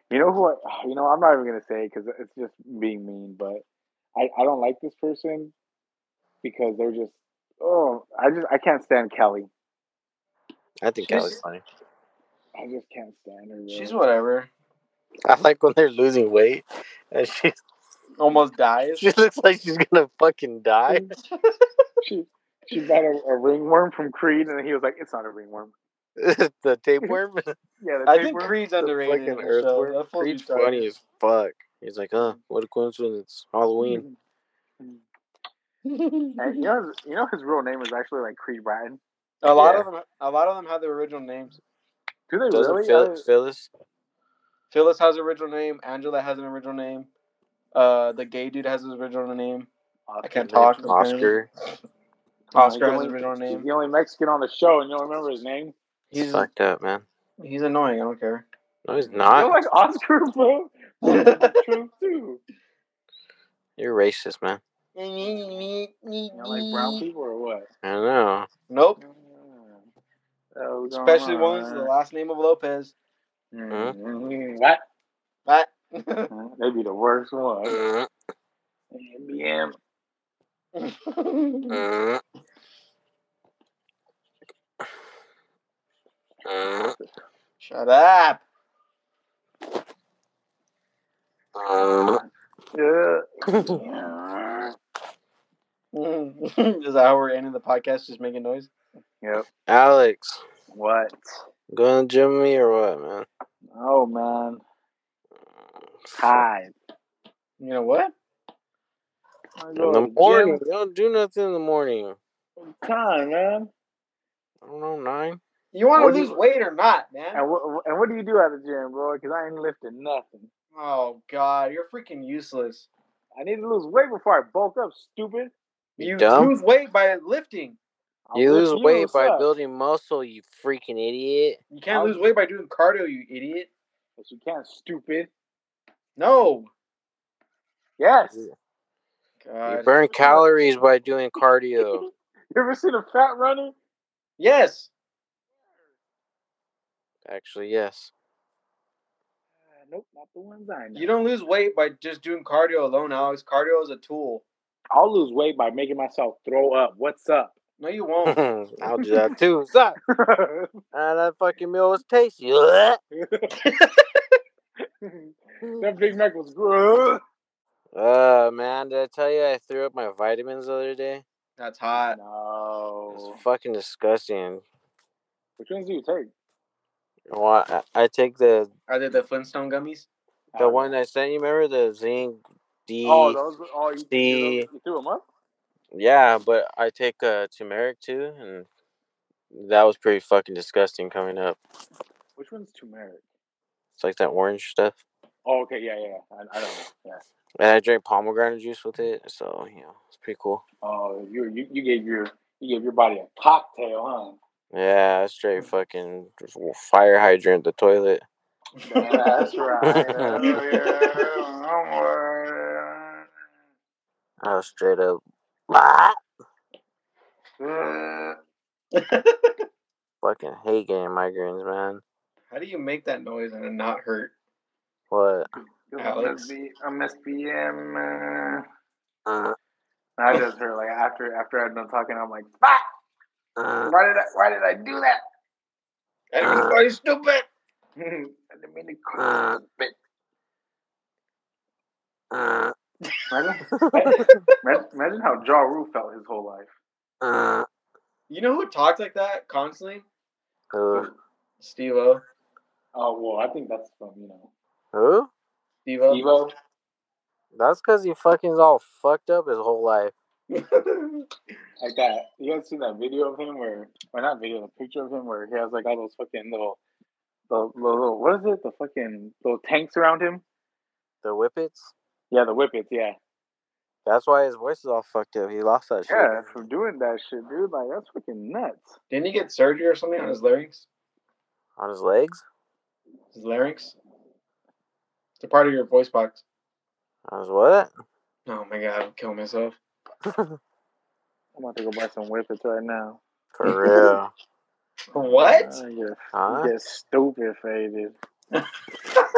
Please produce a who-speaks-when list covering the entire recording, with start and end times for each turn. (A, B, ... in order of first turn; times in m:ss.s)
0:00.1-0:03.6 A
0:04.2-0:05.5 A
0:06.4-0:09.5 A
0:10.8-0:11.6 B
0:11.0-0:11.4 C
0:12.5-0:14.0 A
0:13.7-0:14.5 C
0:15.2-0:17.6 B
0:18.2-0:19.1 C
0:19.0-0:21.1 B
0:21.3-0:21.6 C
0:22.0-0:25.7 A
0:26.2-0:27.6 B
0:27.8-0:28.8 A
0:28.1-0:30.8 C
0:28.8-0:34.0 B
0:33.8-0:34.2 A
0:35.8-0:36.5 C
0:36.4-0:39.0 A
0:39.4-0:41.6 C
0:39.5-0:39.9 B
0:42.3-0:43.3 A
0:42.5-0:43.7 B
0:44.7-0:47.1 C
0:47.7-0:49.7 C
0:50.1-0:50.8 A
0:50.2-0:51.3 C
0:50.4-0:51.5 B
0:52.5-0:53.7 C
0:52.5-0:55.7 A
0:56.1-0:56.5 C
0:56.1-0:57.0 B
0:57.4-0:58.4 C
0:58.8-0:59.6 B
0:59.0-1:02.4 A
1:01.0-1:01.6 C
1:03.8-1:04.6 B
1:04.9-1:07.0 C
1:06.3-1:07.7 A
1:07.8-1:08.5 B
1:08.7-1:09.0 C
1:09.0-1:09.9 A
1:10.5-1:11.9 A
1:10.9-1:12.9 C
1:13.5-1:14.8 A
1:13.7-1:13.9 B
1:15.5-1:16.3 C
1:16.3-1:17.8 A
1:17.6-1:18.1 B
1:18.9-1:19.8 A
1:20.7-1:21.8 C
1:21.7-1:22.2 B
1:26.4-1:26.9 B
1:27.6-1:28.4 C
1:31.5-1:32.2 B
1:32.7-1:34.7 A
1:33.5-1:33.8 B
1:35.9-1:38.7 C
1:39.7-1:40.4 B
1:40.7-1:41.2 A
1:41.7-1:43.3 B
1:43.7-1:44.6 A
1:46.0-1:46.4 B
1:46.2-1:46.7 A
1:47.6-1:48.1 C
1:49.6-1:50.6 A
1:49.8-1:52.2 B
1:52.6-1:53.7 A
1:54.6-1:55.4 B
1:55.7-1:57.4 C
1:56.0-1:56.3 B
1:57.3-2:00.5 A
2:00.7-2:02.9 C
2:03.4-2:05.5 A
2:06.0-2:06.5 B
2:06.0-2:07.8 C
2:08.3-2:09.5 A
2:08.3-2:11.6 B
2:11.7-2:13.7 C
2:11.9-2:12.3 A
2:14.2-2:15.3 A
2:16.2-2:16.7 C
2:18.0-2:18.4 A
2:19.4-2:20.4 C
2:19.6-2:22.1 B
2:22.5-2:23.8 A
2:24.4-2:24.9 C
2:27.2-2:28.1 B
2:29.7-2:31.1 A
2:30.9-2:34.4 C
2:34.9-2:37.6 A
2:37.8-2:38.4 C
2:38.2-2:40.0 B
2:38.9-2:39.2 A
2:40.1-2:40.8 A
2:40.9-2:43.0 B
2:43.1-2:43.6 A
2:43.6-2:44.3 C
2:45.0-2:47.2 A
2:47.9-2:51.2 B
2:51.6-2:52.2 C
2:52.0-2:53.4 A
2:53.1-2:54.6 B
2:55.6-2:56.3 A
2:57.3-2:58.7 B
2:58.9-3:00.1 C
3:00.5-3:00.9 A
3:00.6-3:03.4 B
3:03.0-3:05.2 A
3:04.1-3:04.7 B
3:05.9-3:08.7 B
3:09.5-3:11.6 B
3:12.4-3:13.2 A
3:14.0-3:15.0 B
3:15.4-3:17.2 A
3:17.6-3:20.6 B
3:20.8-3:24.4 A
3:24.7-3:28.2 B
3:28.8-3:29.7 C
3:28.8-3:33.2 A
3:29.8-3:30.3 B
3:30.2-3:31.3 C
3:34.4-3:36.2 B
3:37.6-3:38.4 A
3:38.9-3:39.6 C
3:40.2-3:42.0 B
3:42.5-3:44.3 C
3:45.1-3:45.5 B
3:45.9-3:48.6 A
3:46.0-3:46.5 C
3:49.2-3:49.6 B
3:50.2-3:52.8 A
3:53.6-3:53.9 B
3:53.8-3:55.2 A
3:56.3-3:57.5 C
3:56.4-3:56.8 B
3:58.0-3:59.9 A
3:59.2-3:59.6 B
4:02.3-4:02.7 B
4:03.3-4:06.7 A
4:03.7-4:04.5 B
4:04.2-4:04.6 C
4:07.2-4:07.7 B
4:08.3-4:10.0 C
4:10.7-4:11.1 B
4:11.6-4:12.2 C
4:12.9-4:14.5 A
4:14.9-4:15.3 B
4:15.8-4:16.2 C
4:16.1-4:16.5 A
4:17.5-4:20.1 B
4:20.5-4:21.3 C
4:21.8-4:26.8 A
4:27.5-4:30.4 A
4:31.2-4:31.9 B
4:32.3-4:33.2 A
4:34.0-4:36.6 B
4:36.1-4:39.0 A
4:39.1-4:40.8 C
4:41.8-4:42.4 B
4:43.3-4:43.9 C
4:45.4-4:46.4 C
4:47.3-4:47.9 B
4:48.5-4:49.8 C
4:50.2-4:50.6 B
4:51.6-4:53.2 A
4:53.5-4:54.3 B
4:55.1-4:55.7 C
4:55.3-4:58.1 A
4:56.3-4:56.7 B